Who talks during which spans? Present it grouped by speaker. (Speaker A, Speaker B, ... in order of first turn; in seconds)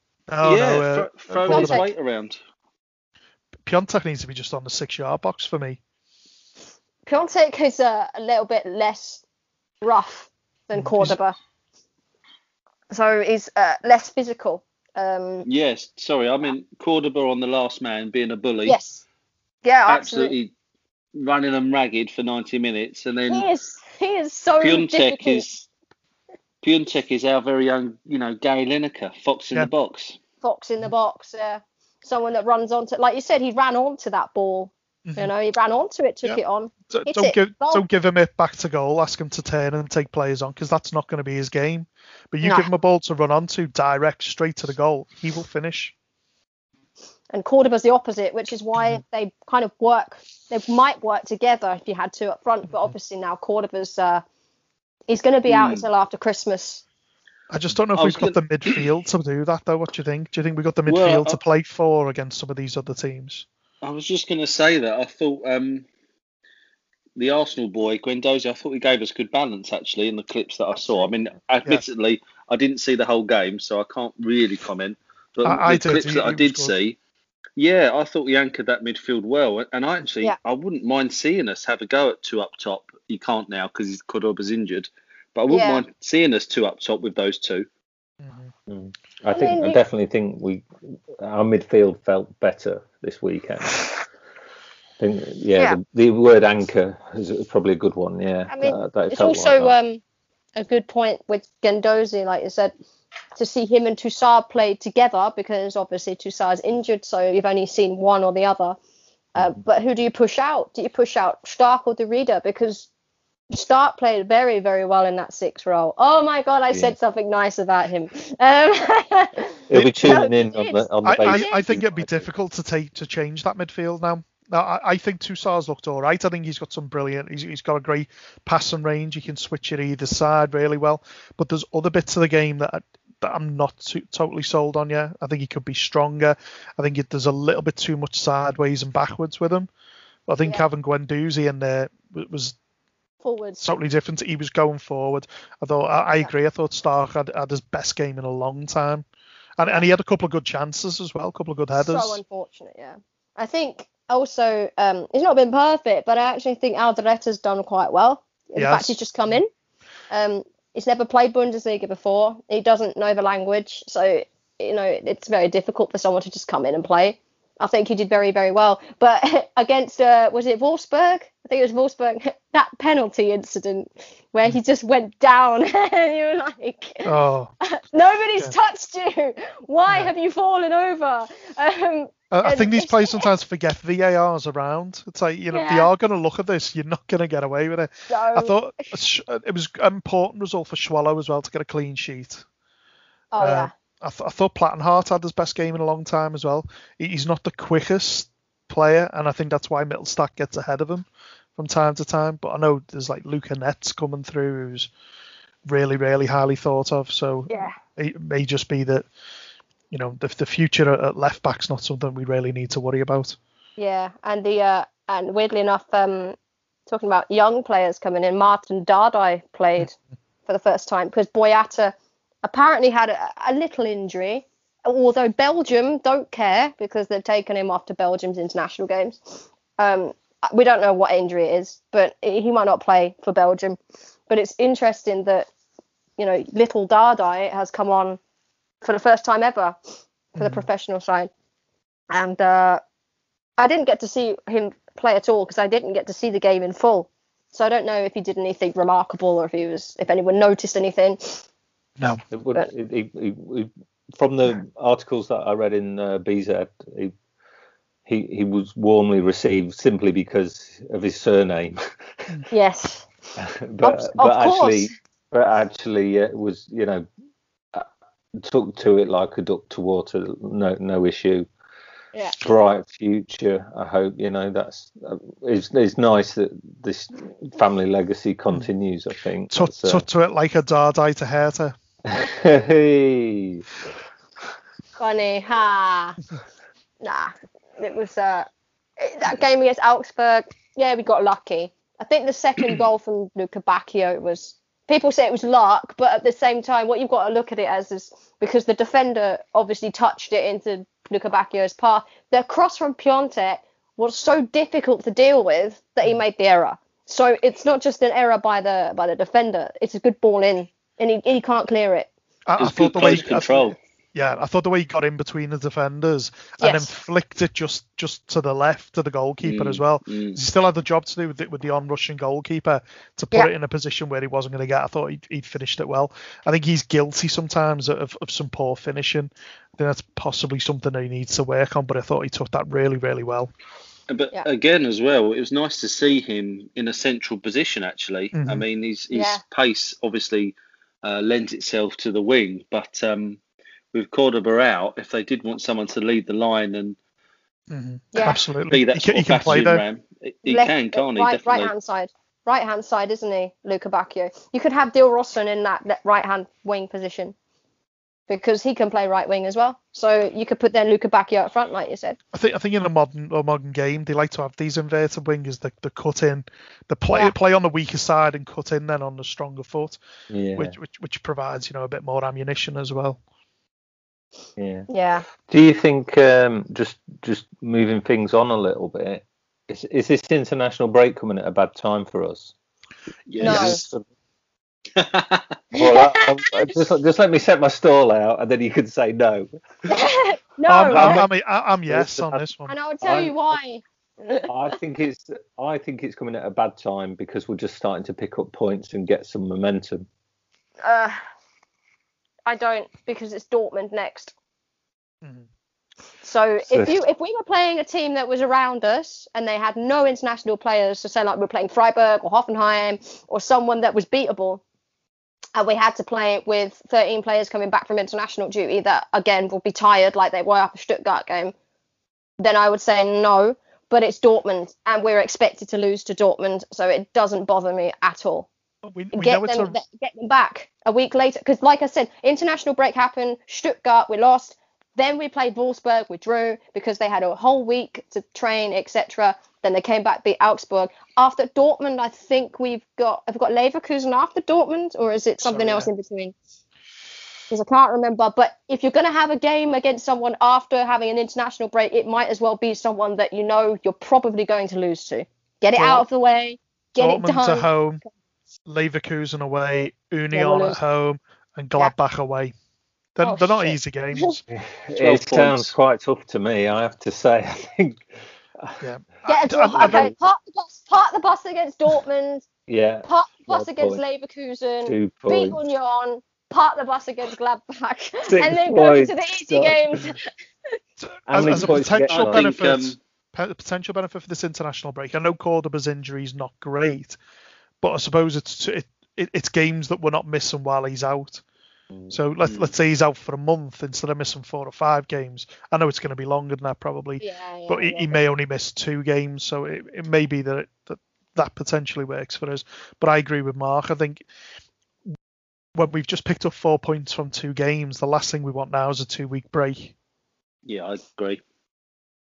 Speaker A: 0.3-1.8, 3.7-5.8, 10.7-11.2, 35.1-35.3, 36.2-45.9, 57.5-63.5, 75.5-76.8, 88.2-88.5, 119.7-120.2, 121.0-139.7, 140.3-142.6, 143.6-149.1, 149.6-152.2, 158.6-159.4, 177.1-177.5, 182.3-192.4, 193.4-204.9, 205.7-209.1, 209.9-213.4, 240.4-240.7, 279.5-281.8, 312.5-333.5, 338.3-338.7, 347.7-349.8, 362.3-370.0, 370.6-373.2, 383.5-383.7, 390.7-392.7, 428.9-429.8, 445.4-445.9, 455.8-456.1, 457.0-458.0, 458.7-462.5, 463.2-464.4, 468.8-470.1, 481.0-487.2, 487.8-491.4, 492.1-504.2, 505.8-509.9
Speaker B: 0.4-2.4, 15.4-18.8, 19.9-20.5, 21.2-23.5, 24.6-25.7, 26.6-30.2, 55.5-55.9, 58.0-58.9, 60.9-61.4, 63.8-65.8, 67.2-77.0, 77.6-87.7, 312.6-313.8, 319.4-320.4, 334.1-343.4, 343.9-347.0, 348.7-351.7, 383.3-383.6, 385.0-385.4, 465.0-465.7, 481.4-483.0, 492.4-492.7, 510.7-511.4
Speaker C: 1.5-1.9, 7.1-9.2, 9.8-11.4, 12.9-15.5, 18.6-19.0, 19.6-20.4, 23.3-25.5, 30.4-37.8, 42.4-42.7, 47.3-54.2, 55.1-56.8, 70.8-71.1, 85.5-85.8, 89.3-89.8, 98.5-100.0, 100.6-102.7, 103.4-108.8, 109.4-112.9, 113.5-121.7, 143.2-143.6, 151.8-159.5, 160.1-183.3, 185.5-185.9, 188.1-188.5, 193.3-193.7, 207.5-207.8, 213.8-219.9, 220.5-233.8, 234.3-235.5, 236.2-238.2, 238.8-239.8, 240.3-241.3, 242.1-242.8, 243.6-251.4, 262.5-263.1, 263.8-264.9, 285.0-286.2, 287.0-312.1, 316.6-316.9, 339.1-339.4, 348.1-348.4, 350.5-357.3, 358.3-362.2, 374.9-375.3, 383.4-383.8, 385.7-386.8, 389.9-391.3, 392.7-394.5, 400.8-401.2, 402.5-404.3, 406.2-414.6, 415.6-421.5, 422.4-428.5, 429.1-446.4, 447.5-458.1, 460.3-460.8, 463.2-464.4, 469.3-472.5, 473.1-480.8, 497.2-498.2
Speaker D: 88.7-94.0, 95.0-99.7, 116.7-117.0, 119.7-122.3, 252.3-257.1, 258.1-262.4, 263.4-267.1, 268.4-271.5, 272.4-280.1, 282.1-283.6, 370.3-370.7, 374.6-374.9, 375.5-382.5, 383.4-384.1, 385.8-389.5, 390.9-391.3, 391.9-392.4, 393.0-393.6, 394.5-400.1, 406.7-406.9, 464.5-468.1, 469.8-470.2, 472.7-474.0, 474.9-475.6, 478.3-480.2, 481.3-482.6, 491.9-492.2